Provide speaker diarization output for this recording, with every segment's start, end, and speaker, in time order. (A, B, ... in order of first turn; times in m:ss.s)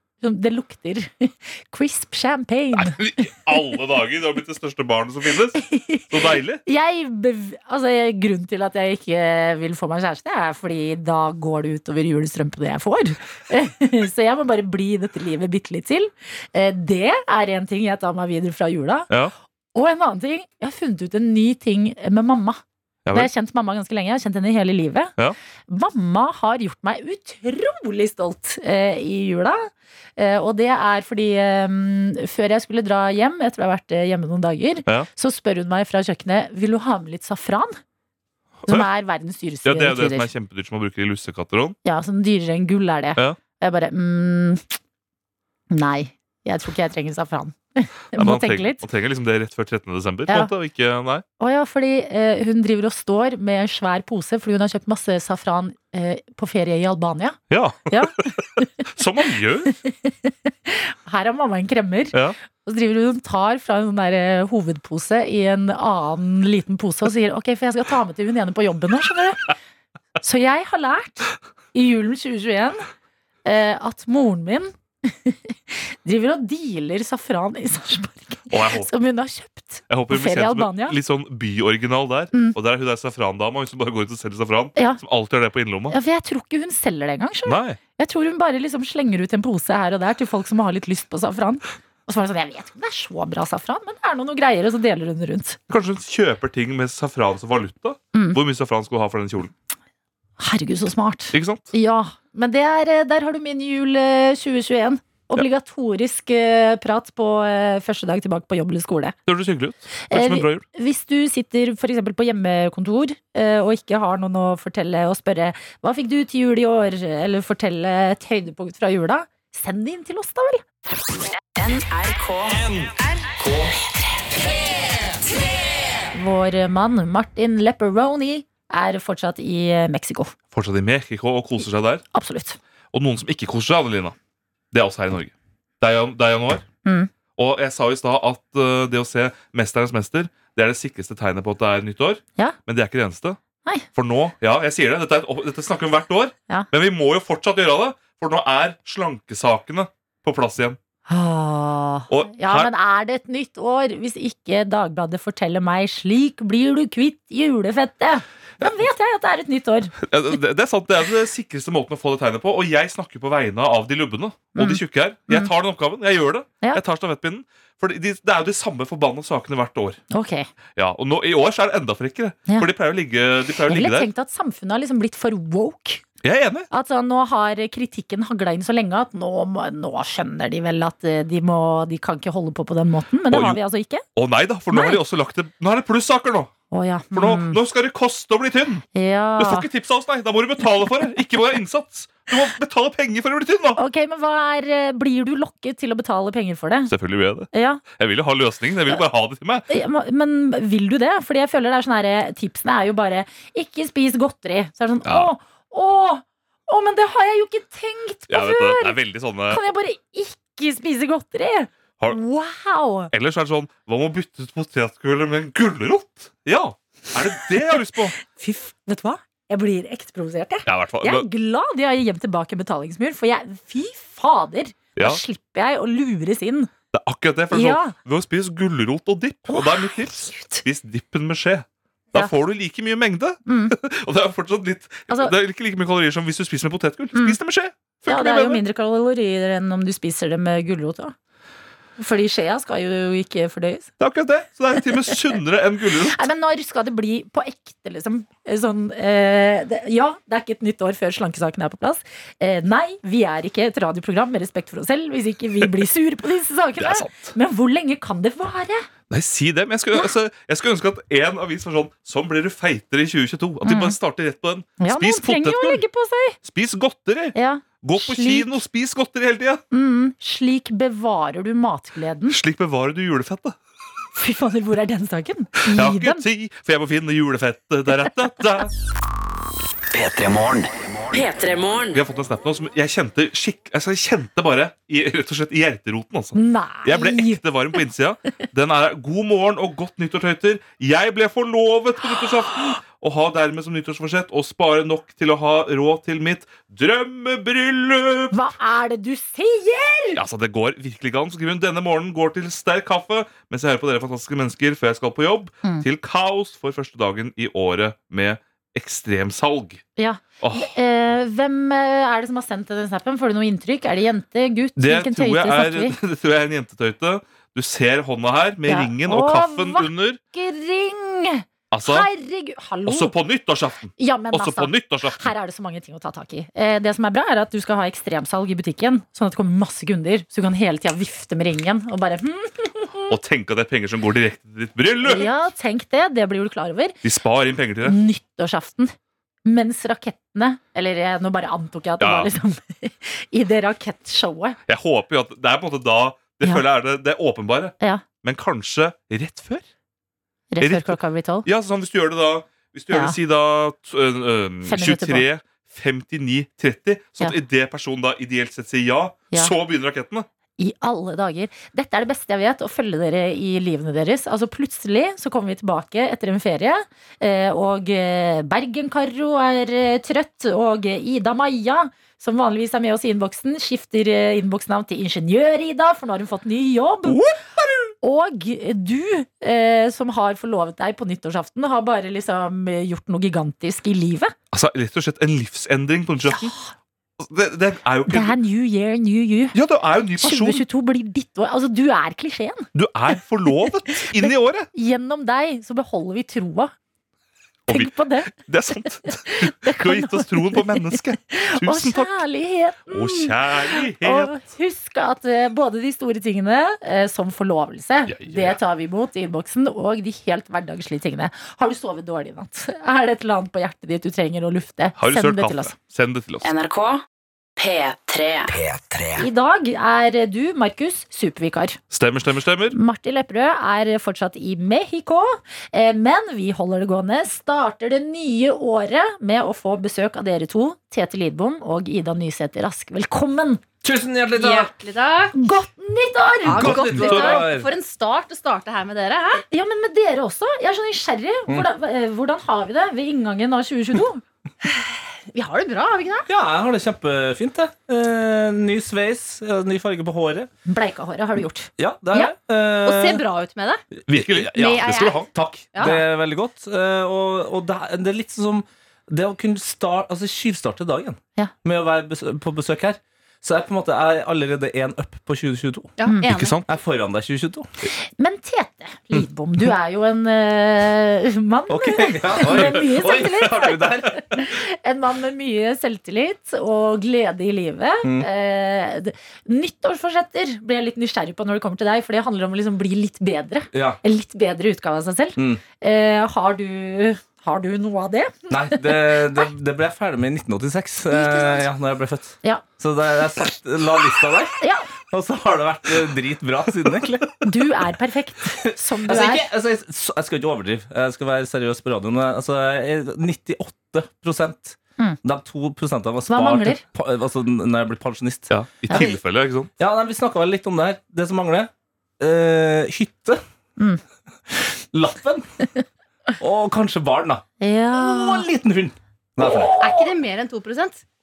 0:00.2-0:03.4 A
0:02.7-0:06.6 B
0:05.6-0:06.1 A
0:06.6-0:19.1 A
0:19.7-0:22.6 A
0:23.1-0:25.1 A
0:25.7-0:37.8 A
0:38.7-0:40.3 A
0:39.6-0:41.8 B
0:41.8-0:44.7 A
0:45.7-0:48.8 A
0:48.2-0:51.2 B
0:51.4-0:58.9 A
0:57.5-0:59.7 B
0:59.6-1:09.5 A
1:10.2-1:12.8 A
1:13.4-1:21.0 A
1:18.5-1:18.9 B
1:19.9-1:26.0 B
1:24.8-1:25.0 A
1:25.9-1:35.6 A
1:27.4-1:27.8 B
1:35.7-1:39.5 B
1:38.1-1:38.4 A
1:40.4-1:49.2 A
1:41.3-1:41.7 B
1:49.3-1:50.6 B
1:50.1-2:00.7 A
2:01.5-2:02.6 C
2:06.1-2:10.3 A
2:10.5-2:12.0 B
2:12.1-2:12.6 A
2:12.9-2:14.1 B
2:14.7-2:16.6 B
2:16.8-2:17.1 A
2:17.4-2:23.4 B
2:23.9-2:30.8 B
2:31.1-2:39.9 A
2:32.1-2:32.7 B
2:40.0-2:50.0 B
2:44.5-2:45.5 A
2:50.1-2:50.5 A
2:50.8-2:54.1 B
2:53.7-2:56.0 A
2:56.2-2:56.7 B
2:56.7-3:04.0 A
3:03.3-3:03.6 B
3:04.1-3:06.5 B
3:04.7-3:05.0 A
3:06.7-3:07.6 A
3:07.1-3:08.8 B
3:08.9-3:09.7 A
3:09.4-3:13.8 B
3:13.8-3:16.9 A
3:16.9-3:19.7 B
3:17.5-3:17.8 A
3:19.7-3:33.1 A
3:25.0-3:25.3 B
3:28.3-3:29.6 B
3:33.1-3:38.2 B
3:38.2-3:46.7 A
3:40.6-3:41.2 B
3:45.0-3:45.2 B
3:46.9-3:58.6 B
3:47.5-3:47.9 A
3:49.5-3:50.6 A
3:53.4-3:53.8 A
3:55.1-3:55.3 A
3:58.0-4:01.1 A
4:02.0-4:03.9 A
4:04.0-4:06.2 B
4:06.1-4:18.9 A
4:16.8-4:17.3 B
4:19.1-4:25.8 B
4:23.6-4:24.0 A
4:24.8-4:26.4 A
4:26.4-4:29.6 B
4:27.3-4:28.5 A
4:29.7-4:32.4 A
4:32.3-4:33.6 B
4:34.1-4:36.2 A
4:35.7-4:38.7 B
4:39.9-4:41.2 D
4:41.1-4:42.0 C
4:41.9-4:58.4 B
4:46.3-4:47.7 A
4:58.3-5:00.2 A
5:00.1-5:09.8 B
5:10.0-5:16.0 A
5:10.4-5:10.7 B
5:14.8-5:20.2 B
5:18.6-5:23.1 A
5:21.7-5:22.1 B
5:22.8-5:25.3 B
5:24.0-5:33.1 A
5:33.1-5:35.3 B
5:35.0-5:37.0 A
5:37.0-5:38.0 B
5:37.8-5:38.9 A
5:39.4-5:44.6 A
5:42.0-5:42.3 B
5:44.7-5:49.7 B
5:50.5-5:51.4 A
5:50.6-6:00.3 B
5:52.9-5:53.2 A
5:54.6-5:55.2 A
6:00.6-6:17.2 A
6:17.0-6:17.9 B
6:18.0-6:24.3 A
6:24.5-6:26.5 B
6:27.2-6:28.4 B
6:28.1-6:29.6 A
6:29.5-6:30.6 B
6:30.2-6:32.7 A
6:32.7-6:34.7 B
6:33.9-6:36.7 A
6:37.7-6:42.2 B
6:37.7-6:38.3 A
6:39.0-6:40.6 A
6:41.3-6:55.7 A
6:42.9-6:44.3 B
6:48.1-6:48.6 B
6:55.0-6:56.4 B
6:56.4-6:57.0 C
6:57.6-6:58.5 C
6:58.5-6:59.3 D
6:59.2-7:01.8 A
7:01.9-7:02.8 B
7:02.7-7:13.6 A
7:13.8-7:14.7 E
7:14.3-7:15.4 F
7:15.3-7:17.3 A
7:16.4-7:17.7 E
7:16.4-7:19.4 F
7:19.4-7:24.2 A
7:24.6-7:26.3 F
7:26.3-7:30.5 E
7:30.6-7:32.3 A
7:31.8-7:33.2 E
7:32.8-7:33.8 F
7:34.1-7:35.3 B
7:34.5-7:36.0 F
7:34.6-7:45.9 E
7:46.0-7:46.6 F
7:46.0-7:46.3 A
7:46.2-7:46.7 B
7:46.6-7:47.6 E
7:48.2-8:09.4 A
7:51.7-7:54.5 E
7:58.0-7:58.3 E
8:03.7-8:04.0 E
8:05.4-8:05.6 E
8:08.5-8:14.6 E
8:11.1-8:11.6 A
8:14.6-8:14.9 A
8:15.1-8:17.6 E
8:17.4-8:19.5 A
8:18.6-8:29.1 E
8:26.3-8:26.8 A
8:28.5-8:29.7 B
8:29.8-8:33.4 E
8:34.5-8:35.5 E
8:36.4-8:39.8 E
8:37.6-8:38.4 A
8:39.4-8:40.0 A
8:39.8-8:41.0 F